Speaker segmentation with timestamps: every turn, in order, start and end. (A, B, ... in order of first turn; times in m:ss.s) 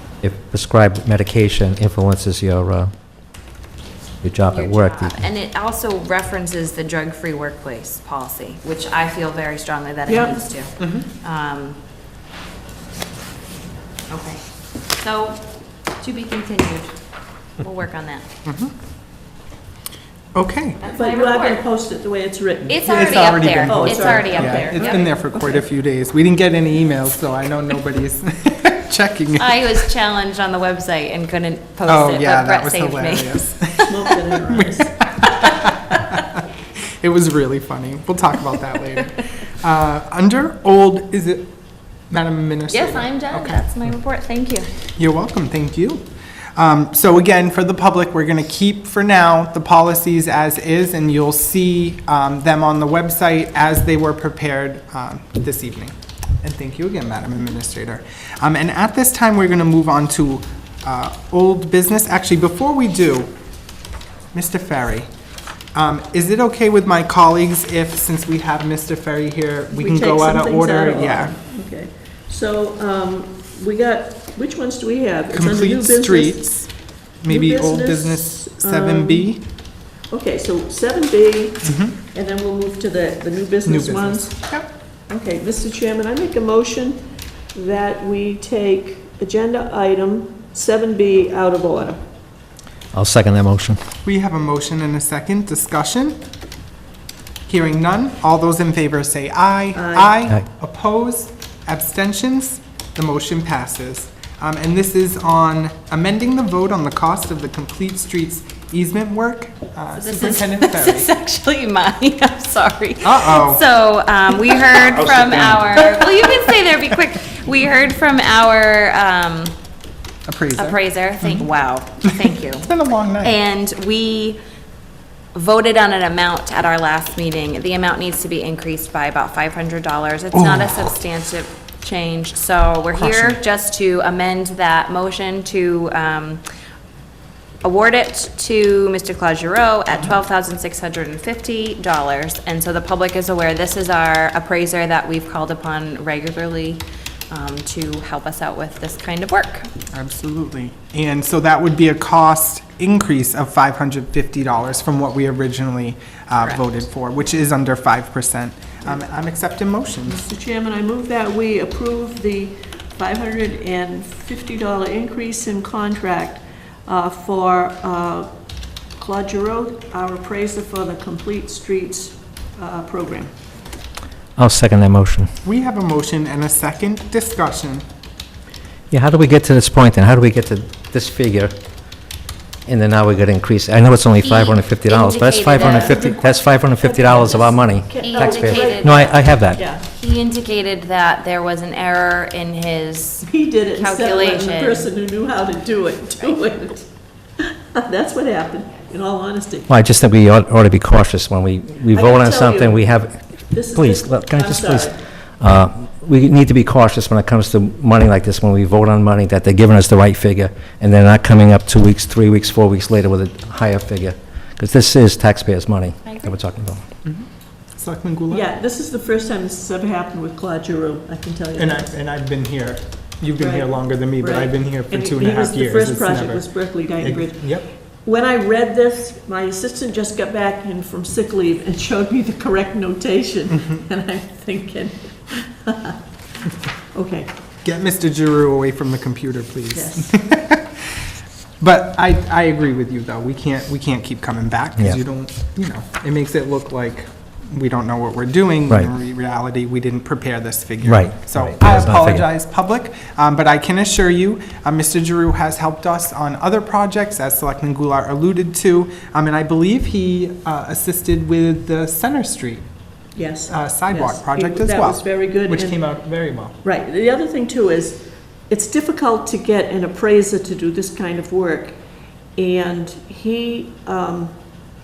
0:00.2-0:02.9 A
0:04.2-0:05.2 A
0:04.5-0:11.8 B
0:10.1-0:10.4 C
0:10.8-0:11.1 D
0:14.1-0:17.0 B
0:17.6-0:18.2 B
0:18.4-0:18.7 D
0:20.3-0:20.8 D
0:20.8-0:21.6 B
0:20.9-0:25.6 C
0:22.7-0:25.1 B
0:22.8-0:29.8 D
0:29.4-0:33.8 B
0:31.9-0:33.9 D
0:33.9-0:35.0 C
0:34.5-0:36.4 D
0:35.4-0:36.0 B
0:37.0-0:41.5 D
0:42.1-0:43.6 D
0:42.7-0:44.7 B
0:45.0-1:03.3 D
1:04.3-1:05.1 D
1:05.8-1:11.4 D
1:09.7-1:16.6 C
1:15.3-1:16.7 D
1:17.2-1:19.4 D
1:17.3-1:19.3 C
1:20.1-1:24.4 C
1:21.6-1:22.0 D
1:23.6-1:24.7 D
1:25.1-1:27.0 C
1:27.5-1:32.0 C
1:32.9-1:33.8 A
1:34.0-1:36.2 D
1:37.5-1:51.1 D
1:39.7-1:40.2 C
1:50.0-1:59.6 B
1:53.0-1:53.6 D
1:54.6-1:56.4 D
2:00.3-2:01.5 D
2:00.5-2:04.4 B
2:02.0-2:03.4 D
2:05.3-2:16.4 B
2:10.3-2:10.8 D
2:13.0-2:13.4 D
2:17.6-2:29.7 B
2:29.9-2:40.3 D
2:36.4-2:36.7 B
2:40.1-2:48.3 C
2:49.0-2:53.3 C
2:54.4-2:55.3 A
2:55.4-2:57.8 D
2:58.9-3:01.5 A
3:02.7-3:09.6 A
3:04.2-3:06.0 B
3:05.6-3:09.8 C
3:08.0-3:09.3 B
3:09.8-3:14.9 B
3:13.2-3:16.9 C
3:17.4-3:19.7 C
3:19.7-3:23.2 A
3:21.9-3:22.9 C
3:23.5-3:25.0 C
3:23.7-3:36.8 A
3:36.0-3:36.4 B
3:37.8-3:38.5 D
3:38.3-3:41.9 C
3:41.6-3:47.7 D
3:43.4-3:56.0 C
3:56.9-3:57.3 C
3:57.6-4:00.8 D
3:59.7-4:00.2 C
4:01.6-4:22.6 D
4:10.8-4:12.3 A
4:23.2-4:25.8 C
4:23.5-4:26.6 D
4:26.6-4:31.8 C
4:32.4-4:34.4 C